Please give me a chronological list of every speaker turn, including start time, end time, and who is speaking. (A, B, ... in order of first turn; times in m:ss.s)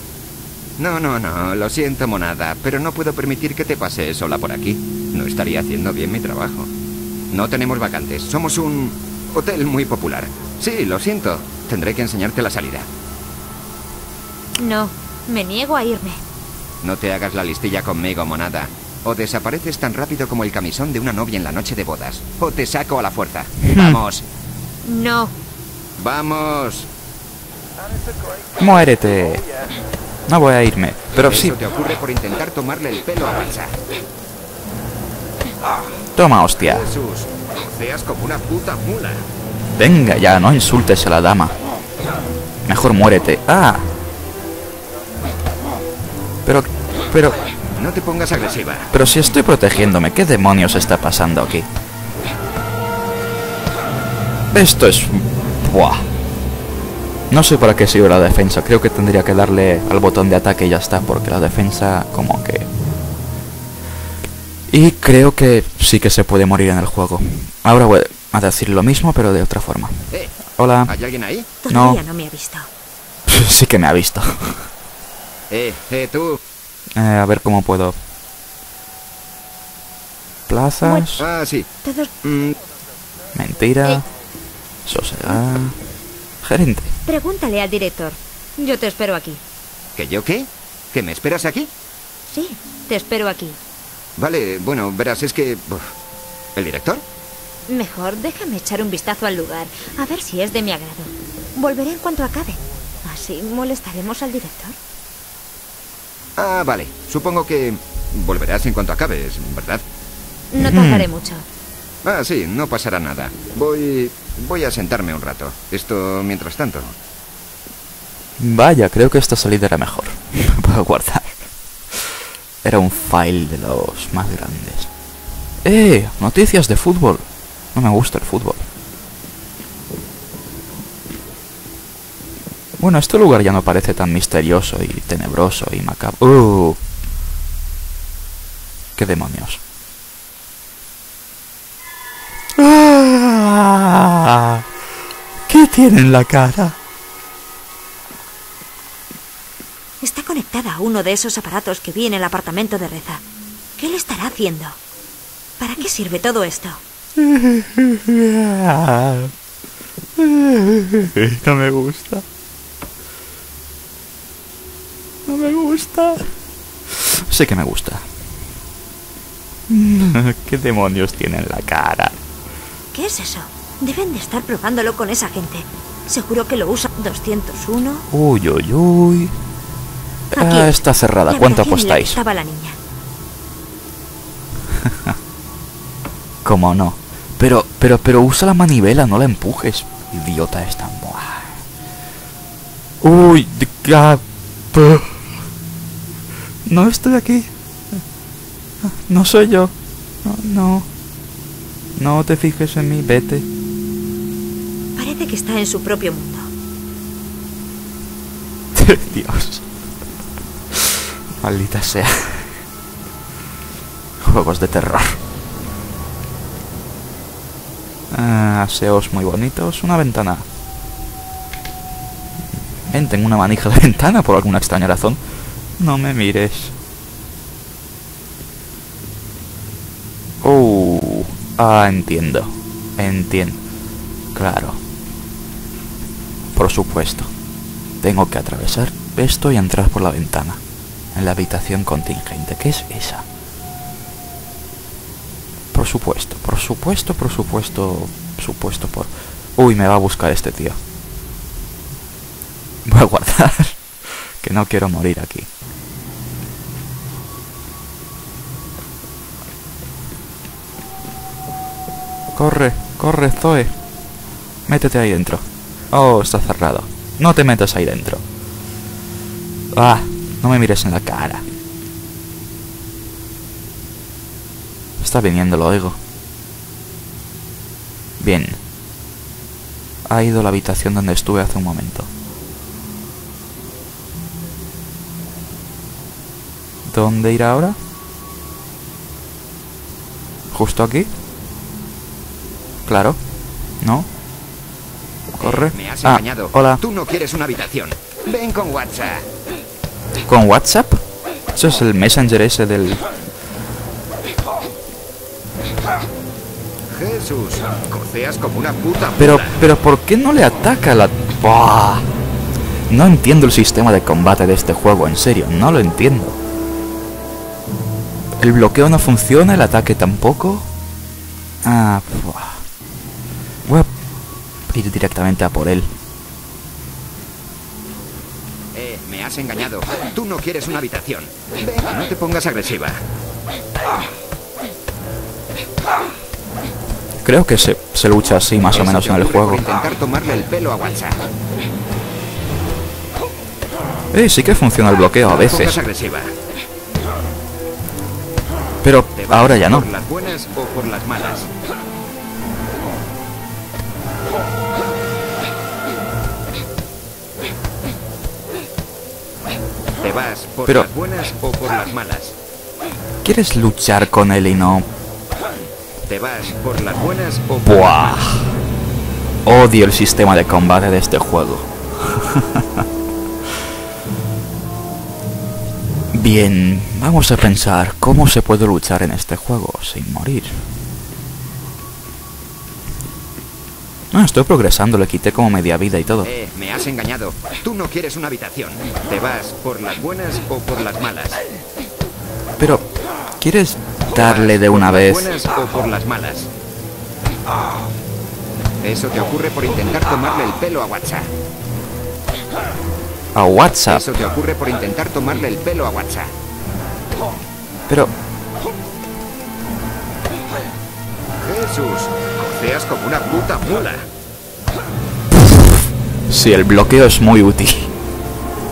0:00.8-0:06.7 A
0:07.3-0:12.9 A
0:14.6-0:16.2 B
0:16.8-0:24.2 A
0:23.6-0:24.0 C
0:24.8-0:25.3 B
0:26.0-0:26.9 A
0:28.6-0:29.4 C
0:30.3-0:31.6 C
0:31.1-0:33.8 A
0:36.2-0:36.9 C
0:36.6-0:39.2 A
0:39.8-0:41.6 C
0:42.6-0:43.9 C
0:46.4-0:47.4 C
0:47.8-0:48.9 A
0:48.9-0:51.7 C
0:54.5-0:56.0 C
0:57.3-1:02.7 C
1:04.7-1:10.9 C
1:10.9-1:11.5 A
1:11.6-1:12.7 B
1:11.7-1:12.0 C
1:13.3-1:14.7 C
1:15.5-1:16.4 A
1:17.0-1:18.0 C
1:20.5-1:21.2 C
1:20.8-1:21.1 B
1:21.2-1:21.7 A
1:21.8-1:22.1 B
1:22.2-1:22.6 A
1:23.3-1:24.0 C
1:24.8-1:25.8 C
1:26.4-1:26.9 C
1:27.0-1:29.4 B
1:30.0-1:31.7 A
1:32.3-1:33.6 B
1:34.2-1:35.9 A
1:36.6-1:37.0 A
1:37.7-1:44.8 B
1:46.4-1:49.8 A
1:50.5-1:51.4 B
1:50.6-1:51.1 C
1:52.0-1:56.9 A
1:58.4-2:01.4 C
2:01.9-2:04.9 C
2:05.6-2:08.7 C
2:12.8-2:16.8 C
2:19.0-2:19.6 C
2:22.6-2:24.6 C
2:25.5-2:26.8 C
2:30.0-2:33.2 B
2:33.8-2:34.8 B
2:35.6-2:36.8 B
2:37.2-2:39.3 C
2:40.2-2:42.2 C
2:45.3-2:46.3 C
2:46.9-2:48.1 C
2:49.7-2:52.2 C
2:52.9-2:58.1 B
2:58.1-2:59.3 C
3:00.3-3:02.2 C
3:00.4-3:02.8 B
3:04.8-3:05.2 C
3:06.4-3:11.6 C
3:13.0-3:15.2 C
3:16.6-3:17.5 C
3:18.8-3:19.7 C
3:20.2-3:20.9 C
3:22.0-3:23.4 C
3:25.0-3:26.5 B
3:28.7-3:29.6 C
3:30.7-3:32.5 C
3:34.2-3:35.2 C
3:38.1-3:40.4 C
3:42.9-3:45.2 C
3:45.8-3:46.7 C
3:50.4-3:53.6 C
3:54.3-3:54.8 C
3:56.5-3:57.3 C
3:58.0-4:00.6 C
4:01.1-4:03.2 C
4:05.7-4:10.8 C
4:12.8-4:15.5 C
4:22.3-4:23.7 C
4:24.7-4:28.2 C
4:29.7-4:31.4 C
4:35.0-4:36.0 C
4:38.2-4:38.6 C
4:40.1-4:42.1 C
4:46.8-4:47.8 C
4:50.5-4:51.1 C
4:52.8-4:53.2 C
4:53.8-4:54.1 C
4:55.3-4:56.8 C
4:55.4-4:59.3 A
5:00.3-5:01.0 C
5:01.5-5:03.0 C
5:06.9-5:09.6 A
5:09.2-5:12.1 C
5:12.9-5:16.4 C
5:18.4-5:20.7 C
5:21.6-5:22.6 C
5:23.6-5:23.9 C
5:24.7-5:25.9 C
5:28.7-5:33.0 A
5:37.2-5:39.6 C
5:38.7-5:41.2 A
5:44.1-5:45.8 C
5:45.2-5:46.3 A
5:48.8-5:49.9 C
5:49.2-5:51.5 A
6:00.0-6:02.4 A
6:03.2-6:04.9 C
6:06.0-6:08.3 A
6:07.6-6:08.5 C
6:09.4-6:12.8 C
6:16.1-6:20.6 C
6:24.1-6:26.3 C
6:26.2-6:31.4 A
6:32.6-6:32.8 C
6:33.4-6:35.3 C
6:34.1-6:36.5 A
6:38.8-6:41.3 A
6:43.3-6:44.0 C
6:43.9-6:46.3 A
6:51.4-6:54.1 A
6:56.3-6:57.9 C